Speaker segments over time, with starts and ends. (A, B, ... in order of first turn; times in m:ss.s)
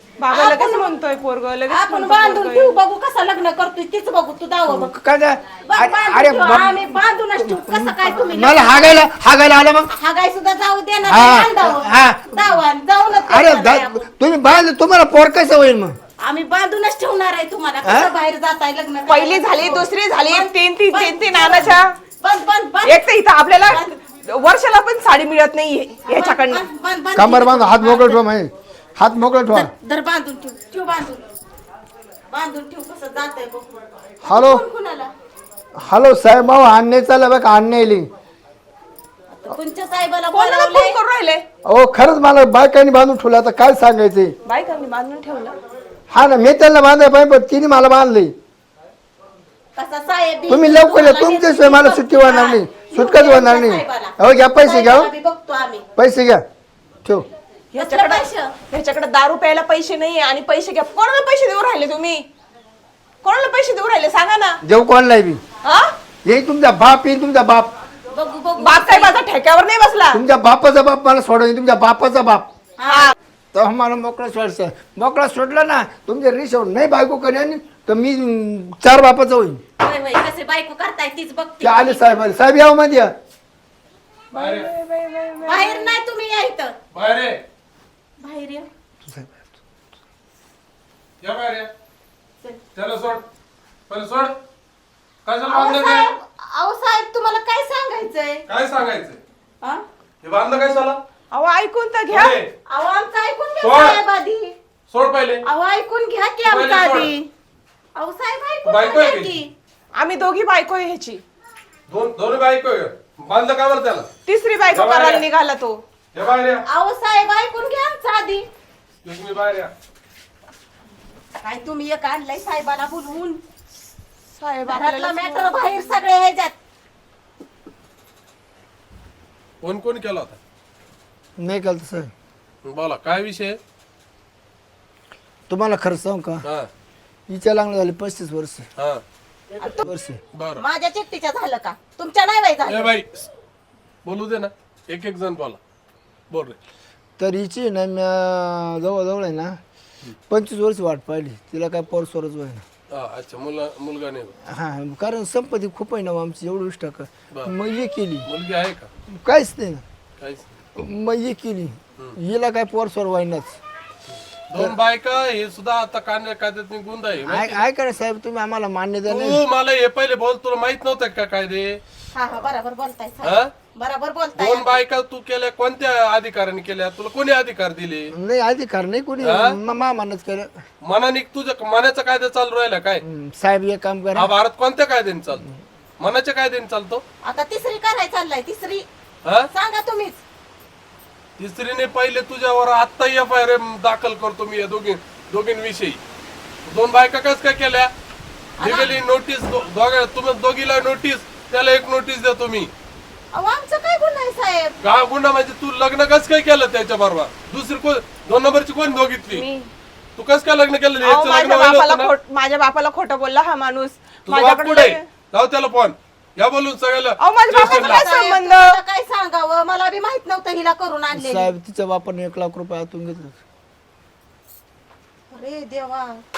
0:00.2-0:02.8 A
0:00.3-0:00.9 B
0:01.7-0:04.9 B
0:04.7-0:09.9 C
0:05.6-0:09.0 B
0:09.9-0:14.0 B
0:11.0-0:12.5 C
0:13.2-0:16.0 C
0:16.2-0:23.0 B
0:17.8-0:18.1 C
0:19.1-0:21.9 A
0:22.8-0:26.6 A
0:23.6-0:24.0 B
0:26.1-0:28.2 B
0:27.1-0:29.7 C
0:29.5-0:31.2 B
0:32.3-0:33.7 B
0:34.2-0:34.6 C
0:34.2-0:35.1 B
0:35.8-0:38.1 C
0:39.3-0:41.0 B
0:40.3-0:41.4 A
0:41.6-0:44.3 C
0:44.4-0:45.6 A
0:46.1-0:48.3 C
0:49.8-0:55.8 B
0:50.5-0:55.1 C
0:56.0-0:56.4 C
0:57.7-1:02.2 A
0:57.8-0:58.5 B
1:03.2-1:04.6 A
1:04.6-1:05.4 C
1:05.6-1:05.9 A
1:06.2-1:07.7 C
1:08.1-1:09.2 B
1:08.6-1:10.2 A
1:10.1-1:12.5 C
1:12.8-1:13.1 B
1:12.9-1:13.1 A
1:13.5-1:19.6 C
1:19.8-1:22.2 B
1:21.6-1:23.1 C
1:24.3-1:26.0 A
1:24.3-1:24.7 D
1:25.4-1:26.7 B
1:26.9-1:27.4 D
1:28.2-1:28.7 B
1:29.0-1:29.4 C
1:31.2-1:31.7 D
1:32.7-1:33.2 D
1:33.9-1:34.3 D
1:35.2-1:36.1 D
1:35.4-1:38.4 B
1:38.5-1:39.2 D
1:40.2-1:41.0 D
1:41.3-1:42.4 A
1:42.1-1:42.5 D
1:42.7-1:44.5 B
1:43.6-1:44.0 D
1:44.9-1:45.4 D
1:45.4-1:47.3 B
1:46.4-1:47.1 D
1:47.9-1:49.5 B
1:48.6-1:49.3 D
1:50.0-1:51.2 A
1:51.9-1:54.1 D
1:54.2-1:55.8 A
1:54.7-1:55.3 D
1:56.1-1:56.6 D
1:56.6-1:58.4 B
1:59.0-1:59.7 D
2:01.4-2:03.4 B
2:04.4-2:05.6 A
2:04.7-2:06.5 B
2:09.6-2:10.4 D
2:11.4-2:12.1 C
2:12.6-2:13.6 D
2:15.5-2:16.4 C
2:16.4-2:16.7 D
2:17.3-2:18.7 C
2:18.8-2:19.0 D
2:19.8-2:20.2 C
2:20.3-2:20.6 D
2:20.6-2:22.9 B
2:22.7-2:23.3 D
2:24.0-2:25.6 D
2:26.3-2:26.6 D
2:27.2-2:29.6 C
2:30.3-2:32.6 C
2:32.9-2:34.3 D
2:34.4-2:38.3 C
2:38.2-2:38.9 D
2:39.1-2:39.8 C
2:40.2-2:40.5 D
2:40.8-2:43.6 C
2:44.5-2:47.6 D
2:47.3-2:49.4 C
2:49.1-2:51.8 D
2:52.1-2:54.7 B
2:53.2-2:53.5 D
2:54.4-2:58.1 D
2:58.1-3:00.5 C
2:59.2-2:59.6 D
3:00.8-3:03.0 D
3:03.0-3:04.3 C
3:04.1-3:05.4 D
3:06.0-3:07.0 D
3:07.2-3:08.8 B
3:09.5-3:10.2 B
3:11.4-3:16.0 D
3:16.7-3:17.9 D
3:18.6-3:18.9 B
3:18.6-3:22.7 D
3:23.3-3:24.7 B
3:24.8-3:29.4 D
3:29.3-3:29.7 A
3:30.2-3:32.1 D
3:31.0-3:35.0 A
3:34.2-3:38.1 D
3:37.2-3:38.8 A
3:37.5-3:41.5 B
3:41.1-3:43.4 C
3:45.3-3:46.2 B